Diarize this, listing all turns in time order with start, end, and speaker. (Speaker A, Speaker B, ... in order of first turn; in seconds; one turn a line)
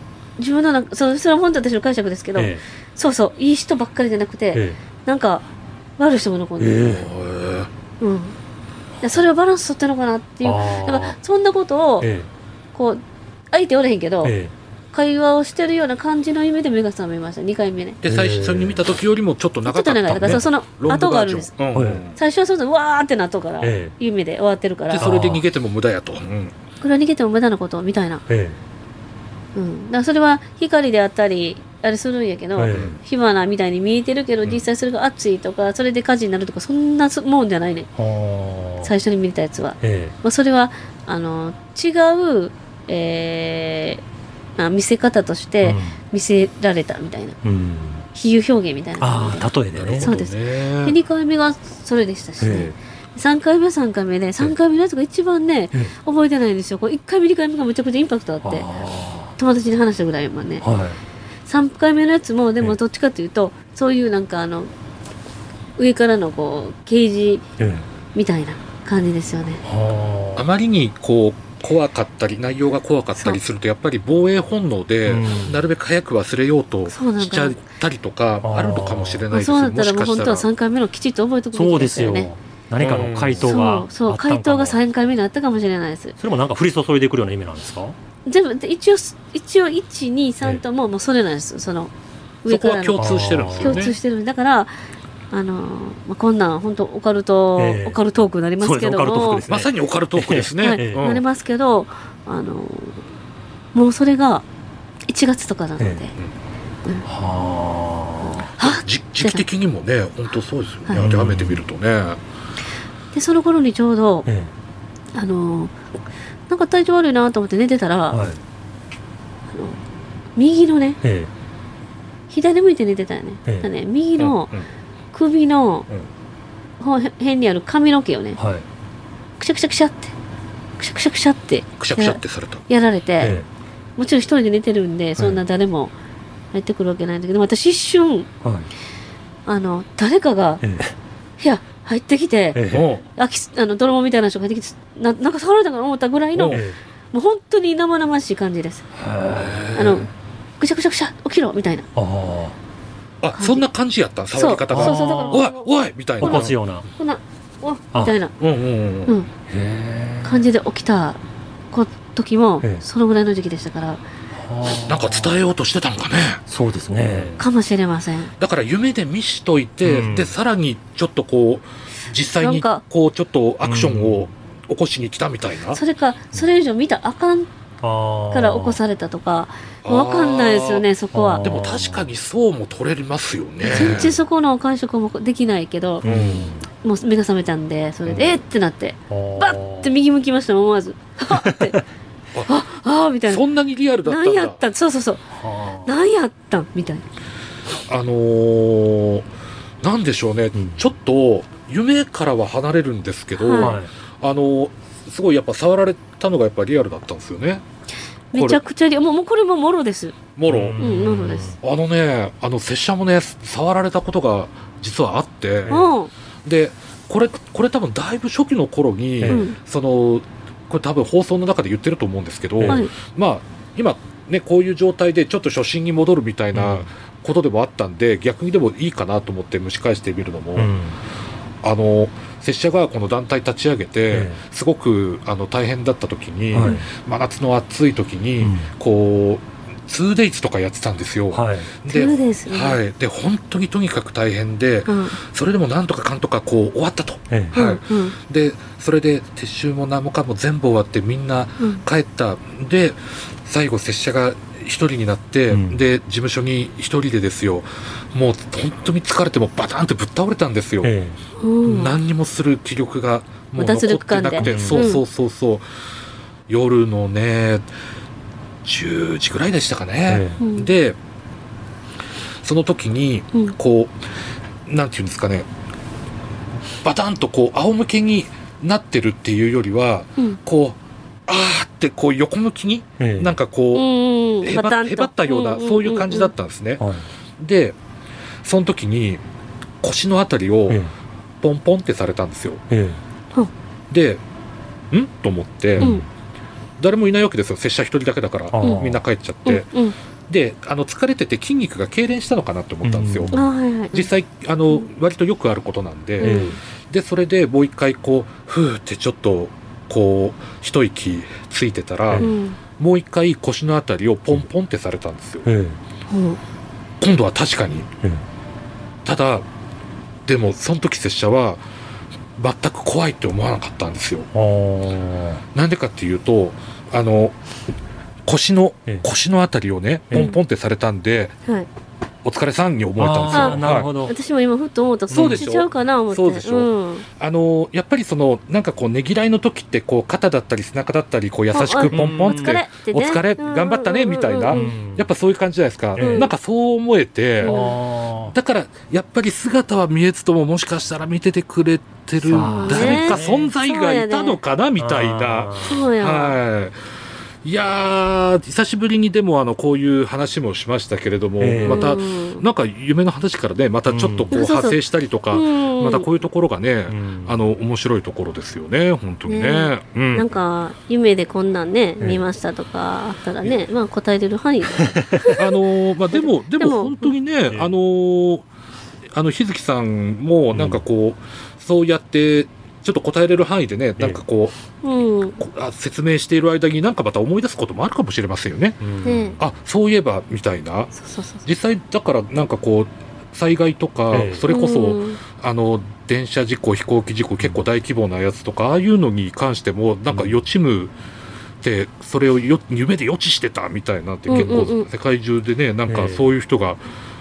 Speaker A: 0.4-5.5
Speaker B: 2.4-2.6
Speaker A: 6.0-6.8
Speaker B: 6.6-7.1
Speaker C: 6.8-7.7
Speaker A: 8.0-8.3
Speaker A: 9.0-12.1
Speaker B: 10.4-11.2
Speaker B: 12.0-12.3
Speaker A: 12.7-14.3
Speaker B: 14.2-14.5
Speaker A: 14.9-18.0
Speaker C: 18.0-22.2
Speaker B: 18.0-18.8
Speaker A: 19.6-21.5
Speaker B: 21.7-22.0
Speaker A: 22.1-25.1
Speaker B: 23.6-23.9
Speaker C: 24.9-26.5
Speaker B: 25.0-25.4
Speaker A: 26.8-28.2
Speaker B: 28.3-28.6
Speaker A: 29.5-37.9
Speaker B: 32.6-32.9
Speaker C: 32.7-33.0
Speaker B: 38.0-38.9
Speaker A: 38.8-44.0
Speaker B: 39.8-40.1
Speaker A: 44.6-47.4
Speaker B: 45.6-46.0
Speaker B: 47.4-48.0
Speaker A: 48.1-49.5
Speaker B: 49.0-50.1
Speaker C: 49.7-51.0
Speaker A: 50.0-58.7
Speaker B: 52.4-52.7
Speaker B: 58.4-59.3
Speaker A: 59.4-60.6
Speaker B: 60.6-61.0
Speaker A: 61.5-64.7
Speaker A: 65.8-67.5
Speaker B: 67.6-67.8
Speaker A: 68.1-69.6
Speaker B: 69.7-70.5
Speaker C: 70.3-80.5
Speaker B: 75.1-75.6
Speaker A: 76.9-77.6
Speaker B: 78.4-79.2
Speaker A: 79.3-82.3
Speaker B: 81.5-84.8
Speaker C: 82.8-83.5
Speaker A: 83.4-86.2
Speaker B: 86.2-87.9
Speaker A: 88.2-91.9
Speaker A: 92.4-94.7
Speaker C: 92.5-94.0
Speaker B: 93.0-93.8
Speaker A: 95.3-99.4
Speaker B: 97.6-98.0
Speaker B: 98.6-101.0
Speaker C: 99.5-101.2
Speaker A: 100.6-103.0
Speaker A: 103.7-104.4
Speaker A: 105.1-106.1
Speaker B: 107.0-108.5
Speaker A: 108.2-109.4
Speaker C: 108.6-112.2
Speaker B: 110.9-111.6
Speaker A: 113.1-114.3
Speaker B: 114.2-114.5
Speaker A: 115.1-115.7
Speaker A: 116.5-118.2
Speaker B: 118.1-118.4
Speaker A: 119.5-119.8
Speaker A: 120.3-121.0
Speaker B: 121.0-121.3
Speaker A: 122.3-124.5
Speaker C: 124.2-124.6
Speaker A: 125.1-125.9
Speaker A: 126.8-128.4
Speaker B: 128.4-128.6
Speaker A: 129.4-130.1
Speaker A: 130.8-133.3
Speaker C: 131.8-132.6
Speaker B: 133.2-133.4
Speaker A: 134.0-135.9
Speaker A: 136.5-138.3
Speaker B: 138.4-138.7
Speaker A: 139.4-140.6
Speaker B: 140.6-140.9
Speaker A: 141.4-142.6
Speaker B: 142.5-142.9
Speaker C: 142.7-143.0
Speaker A: 143.1-146.6
Speaker C: 146.3-146.7
Speaker B: 146.5-146.8
Speaker A: 147.1-148.9
Speaker B: 148.9-149.8
Speaker C: 149.3-150.0
Speaker A: 149.7-150.1
Speaker A: 150.6-151.9
Speaker B: 151.9-152.5
Speaker C: 153.2-156.5
Speaker A: 153.3-153.7
Speaker A: 154.3-158.3
Speaker B: 154.7-155.4
Speaker B: 156.2-156.9
Speaker C: 158.4-159.1
Speaker B: 159.5-160.4
Speaker A: 160.2-161.2
Speaker A: 161.7-164.0
Speaker B: 164.4-165.3
Speaker C: 164.8-166.4
Speaker B: 166.5-167.4
Speaker A: 167.4-168.3
Speaker C: 168.4-175.8
Speaker B: 169.8-170.3
Speaker A: 172.4-172.8
Speaker B: 173.6-174.3
Speaker A: 175.7-177.5
Speaker B: 177.8-178.8
Speaker A: 178.3-181.4
Speaker C: 179.8-180.8
Speaker B: 181.1-182.1
Speaker C: 181.4-184.2
Speaker B: 183.7-184.1
Speaker A: 183.7-186.0
Speaker B: 186.0-186.6
Speaker C: 186.0-186.6
Speaker A: 186.8-191.8
Speaker C: 188.1-188.4
Speaker B: 189.1-189.9
Speaker A: 192.5-193.4
Speaker C: 193.3-194.6
Speaker A: 194.0-195.3
Speaker B: 195.4-195.9
Speaker A: 195.8-197.0
Speaker C: 197.9-199.3
Speaker C: 199.8-207.6
Speaker A: 203.3-203.8
Speaker B: 203.6-203.9
Speaker A: 208.3-210.2
Speaker C: 208.3-208.6
Speaker C: 210.4-210.8
Speaker B: 210.5-211.6
Speaker A: 210.8-211.6
Speaker C: 211.6-215.8
Speaker B: 215.7-215.9
Speaker A: 215.7-216.1
Speaker C: 216.4-230.7
Speaker B: 219.2-219.4
Speaker A: 219.3-219.6
Speaker B: 222.6-222.8
Speaker B: 226.5-226.9
Speaker B: 230.5-231.0
Speaker C: 231.6-260.9
Speaker B: 234.1-234.4
Speaker B: 236.5-236.8
Speaker B: 238.4-238.7
Speaker B: 241.3-241.7
Speaker A: 241.9-242.8
Speaker A: 244.9-245.2
Speaker B: 247.3-247.6
Speaker A: 247.5-248.2
Speaker B: 255.5-255.8
Speaker B: 260.8-261.2
Speaker A: 261.4-261.9
Speaker C: 261.6-265.6
Speaker A: 263.5-265.0
Speaker B: 264.4-264.9
Speaker C: 266.5-267.7
Speaker C: 268.6-271.0
Speaker B: 270.1-270.4
Speaker A: 270.4-270.7
Speaker C: 272.4-273.9
Speaker C: 274.6-275.5
Speaker C: 276.8-283.9
Speaker B: 283.0-283.4
Speaker A: 283.7-286.3
Speaker C: 284.4-286.9
Speaker B: 286.8-287.1
Speaker C: 287.4-287.8
Speaker C: 288.4-289.2
Speaker C: 289.8-290.8
Speaker C: 291.4-292.6
Speaker B: 292.7-293.0
Speaker C: 293.9-294.2
Speaker C: 294.9-295.9
Speaker B: 295.8-296.1
Speaker A: 295.8-296.1
Speaker C: 296.8-299.7
Speaker B: 298.5-299.0
Speaker A: 299.4-299.9
Speaker C: 300.3-315.5
Speaker B: 302.8-303.4
Speaker A: 303.3-304.1
Speaker B: 306.2-306.6
Speaker A: 306.2-306.6
Speaker A: 312.2-312.6
Speaker B: 315.4-315.8
Speaker A: 316.1-316.4
Speaker C: 317.0-317.9
Speaker C: 319.0-319.4
Speaker C: 320.2-321.6
Speaker C: 322.4-324.3
Speaker B: 324.3-325.4
Speaker C: 325.5-327.4
Speaker C: 328.2-331.3
Speaker C: 332.2-333.9
Speaker B: 333.0-334.1
Speaker A: 333.3-337.1
Speaker B: 335.1-335.5
Speaker C: 335.1-347.5
Speaker A: 341.5-344.8
Speaker B: 341.9-342.5
Speaker B: 344.5-345.1
Speaker B: 346.0-346.3
Speaker A: 346.0-346.3
Speaker A: 347.4-347.7
Speaker B: 347.4-348.3
Speaker C: 348.3-356.8
Speaker B: 352.2-353.5
Speaker A: 352.3-354.4
Speaker B: 354.8-355.9
Speaker A: 355.6-356.4
Speaker C: 357.4-370.3
Speaker B: 361.4-362.0
Speaker A: 361.6-362.4
Speaker B: 363.9-364.3
Speaker A: 364.3-364.8
Speaker A: 365.3-366.1
Speaker B: 366.9-367.4
Speaker A: 369.3-375.5
Speaker B: 374.8-375.4
Speaker C: 375.3-378.4
Speaker A: 376.1-377.1
Speaker C: 379.1-384.6
Speaker B: 380.5-380.8
Speaker A: 384.8-385.4
Speaker C: 385.4-388.8
Speaker B: 388.8-389.3
Speaker A: 389.0-389.4
Speaker C: 389.4-390.9
Speaker A: 390.9-391.4
Speaker C: 391.4-400.9
Speaker B: 394.1-394.4
Speaker A: 394.5-395.2
Speaker C: 401.6-406.8
Speaker A: 404.3-404.9
Speaker B: 404.3-404.6
Speaker B: 405.9-406.2